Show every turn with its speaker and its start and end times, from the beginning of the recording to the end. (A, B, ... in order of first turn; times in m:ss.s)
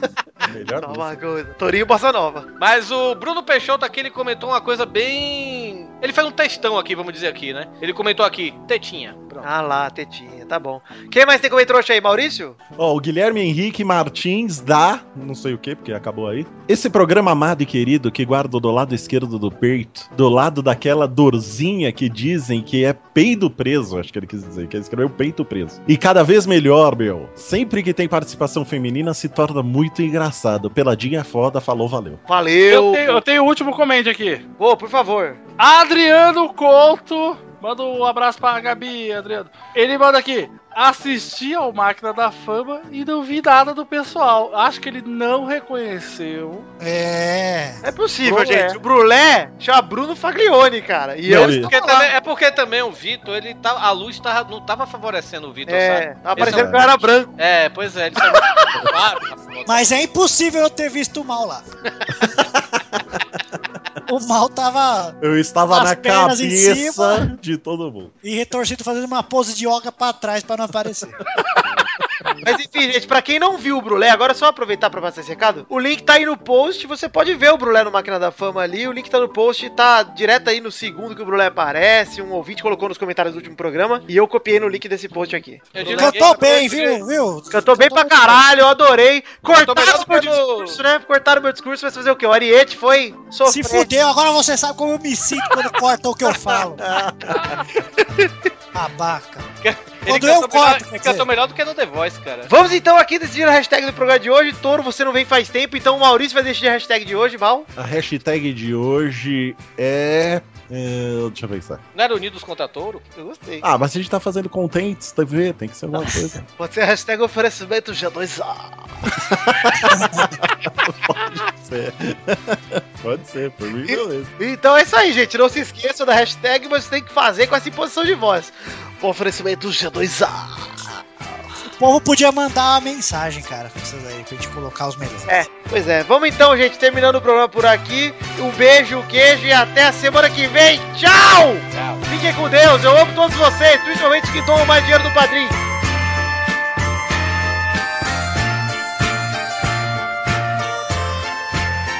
0:00.4-0:01.1 A
0:00.8-0:02.4 B
0:02.6-0:09.5 C
0:09.4-0:12.6 B
0:12.8-0:32.2 A
0:32.3-0:33.2 B
0:32.7-0:34.4 D
0:34.6-0:35.4 B
0:35.6-0:46.7 D
0:46.8-0:47.8 E
0:47.8-0:52.1 B
0:51.2-0:51.7 A
0:51.4-0:56.8 C
0:55.7-0:57.3 B
0:56.4-0:56.9 A
0:57.4-1:00.0 C
0:59.6-1:01.6 E
1:02.4-1:03.1 A
1:04.1-1:05.2 E
1:05.2-1:08.1 A
1:05.7-1:07.3 E
1:08.2-1:11.2 E
1:12.4-1:26.5 B
1:25.7-1:27.0 C
1:25.8-1:28.4 E
1:27.5-1:33.9 B
1:29.5-1:30.8 C
1:33.4-1:36.8 E
1:36.8-1:37.6 A
1:38.7-1:39.5 E
1:39.6-1:42.5 C
1:40.0-1:41.2 E
1:42.5-1:47.7 B
1:47.8-1:51.8 A
1:51.9-1:53.0 C
1:53.2-1:53.6 B
1:53.6-1:56.5 A
1:56.6-1:58.9 B
1:59.2-2:04.3 A
2:03.9-2:11.0 B
2:11.8-2:15.4 E
2:15.3-2:25.6 B
2:21.7-2:22.0 C